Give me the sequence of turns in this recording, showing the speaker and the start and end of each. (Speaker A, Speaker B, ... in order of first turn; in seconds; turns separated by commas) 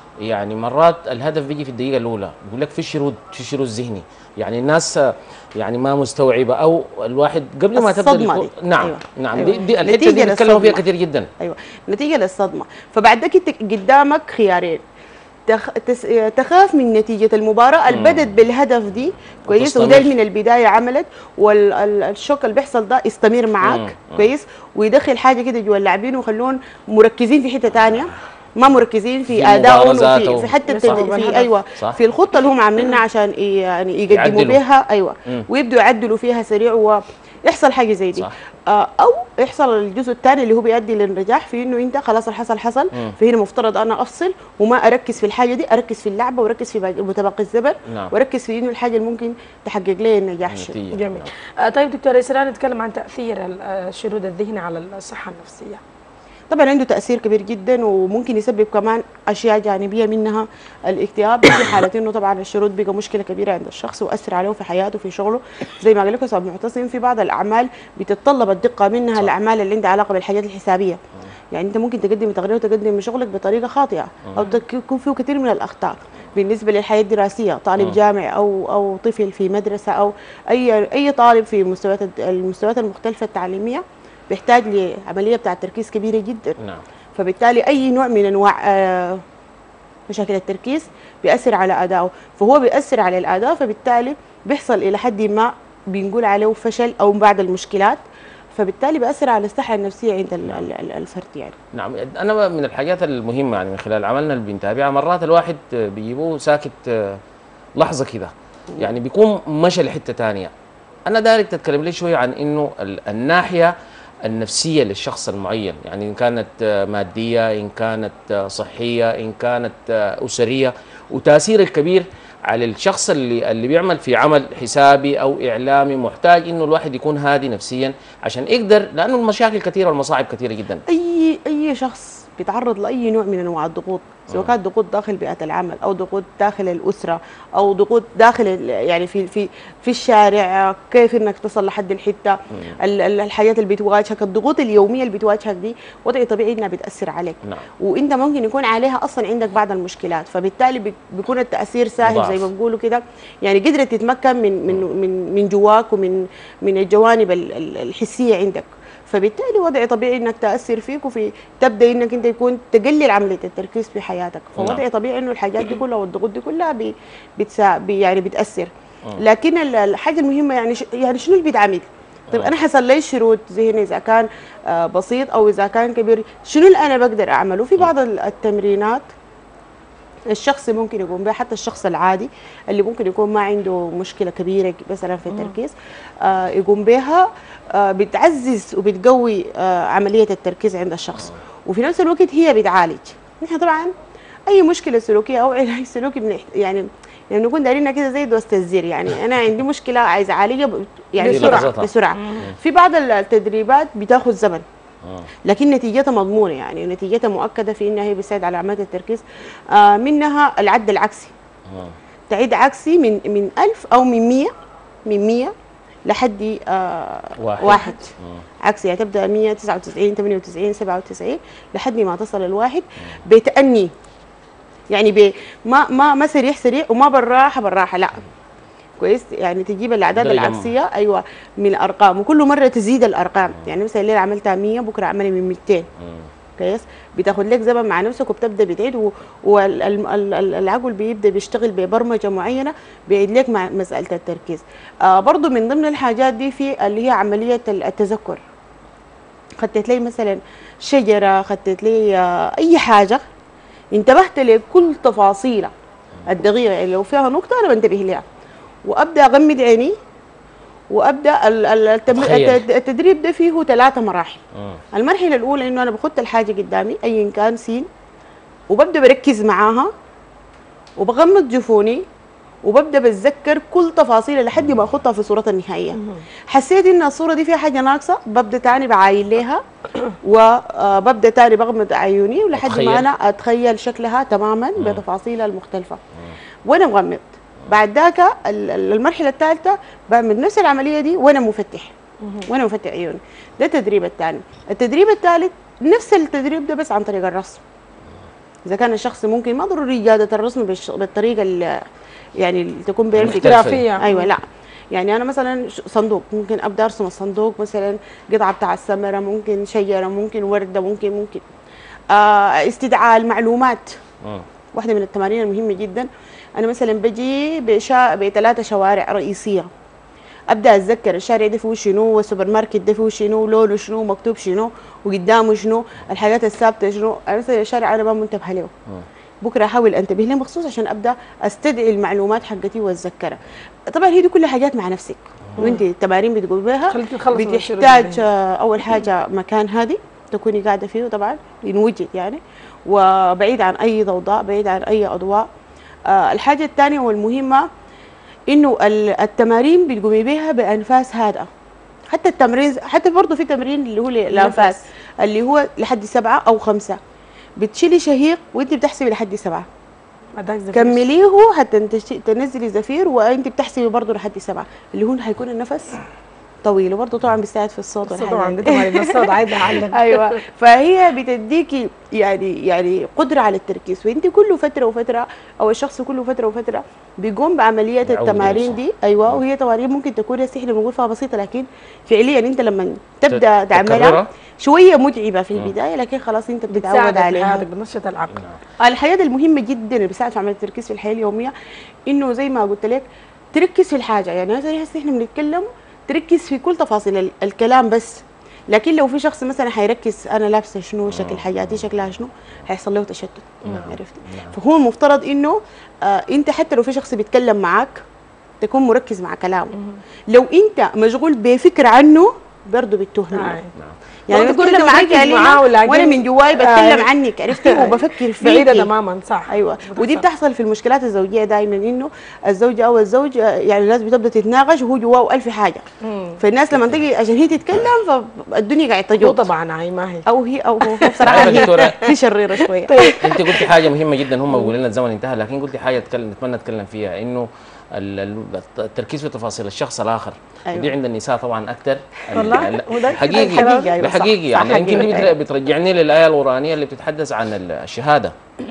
Speaker A: 0.2-11.3, Speaker B: 7.7-10.8, Speaker B: 11.4-14.8, Speaker B: 15.5-50.8, Speaker A: 17.9-18.4, Speaker A: 19.5-20.1, Speaker A: 23.6-24.3, Speaker A: 29.3-31.0, Speaker C: 30.7-31.5, Speaker A: 34.1-34.6, Speaker A: 47.9-48.1, Speaker A: 50.5-51.3, Speaker C: 50.9-55.8, Speaker B: 56.5-71.0, Speaker B: 71.5-86.5, Speaker B: 87.2-89.2, Speaker B: 90.1-98.0, Speaker B: 98.5-101.5, Speaker A: 101.7-107.2, Speaker A: 107.8-110.5, Speaker A: 111.1-113.7, Speaker A: 114.2-130.8, Speaker B: 130.9-179.1, Speaker A: 134.3-134.5, Speaker A: 152.0-152.5, Speaker A: 164.6-164.8, Speaker A: 172.3-172.6, Speaker B: 180.3-193.9, Speaker C: 185.3-185.6, Speaker B: 194.5-204.6, Speaker C: 201.2-202.5, Speaker A: 201.2-202.6, Speaker A: 205.0-205.3, Speaker B: 205.4-211.3, Speaker A: 211.7-211.9, Speaker B: 212.3-214.5, Speaker B: 215.0-215.5, Speaker B: 216.1-218.1, Speaker A: 217.4-218.4, Speaker B: 218.6-223.9, Speaker B: 224.9-228.2, Speaker B: 229.0-235.9, Speaker A: 230.1-230.7, Speaker B: 236.6-248.4, Speaker B: 249.6-253.2, Speaker B: 253.9-255.7, Speaker B: 256.3-258.2, Speaker B: 258.8-259.9, Speaker B: 260.9-264.4, Speaker A: 262.1-262.6, Speaker B: 264.9-267.9, Speaker B: 268.7-269.9, Speaker B: 271.0-272.0, Speaker B: 272.6-279.6, Speaker B: 280.2-286.0, Speaker A: 282.6-283.1, Speaker A: 284.8-285.0, Speaker B: 286.7-291.9, Speaker B: 292.5-297.6, Speaker B: 298.7-301.8, Speaker B: 302.4-311.4, Speaker A: 303.1-303.9, Speaker C: 303.2-304.3, Speaker B: 312.1-314.0, Speaker B: 314.7-319.7, Speaker B: 320.5-328.7, Speaker B: 329.4-333.4, Speaker B: 333.9-345.5, Speaker C: 336.9-338.2, Speaker B: 346.1-347.7, Speaker B: 348.5-351.5, Speaker B: 352.1-357.0, Speaker C: 354.3-354.8, Speaker B: 357.6-359.6, Speaker C: 360.4-361.0, Speaker B: 360.7-366.0, Speaker B: 366.6-387.6, Speaker C: 368.0-370.3, Speaker A: 378.0-379.4, Speaker A: 383.3-384.3, Speaker C: 386.7-388.4, Speaker A: 388.3-388.6, Speaker B: 388.8-391.5, Speaker B: 392.1-408.0, Speaker A: 401.1-401.5, Speaker C: 403.6-403.9, Speaker A: 403.7-404.5, Speaker B: 408.6-409.7, Speaker C: 409.7-410.0, Speaker B: 410.3-413.6, Speaker C: 413.3-413.7, Speaker B: 414.3-418.9, Speaker C: 414.3-420.2, Speaker B: 419.5-425.8, Speaker C: 426.0-426.4, Speaker B: 426.4-429.4, Speaker C: 429.2-430.2, Speaker B: 430.2-433.1, Speaker C: 430.8-432.1, Speaker A: 431.2-432.0, Speaker C: 432.9-433.8, Speaker A: 433.2-448.3, Speaker C: 442.3-445.3, Speaker B: 443.1-445.3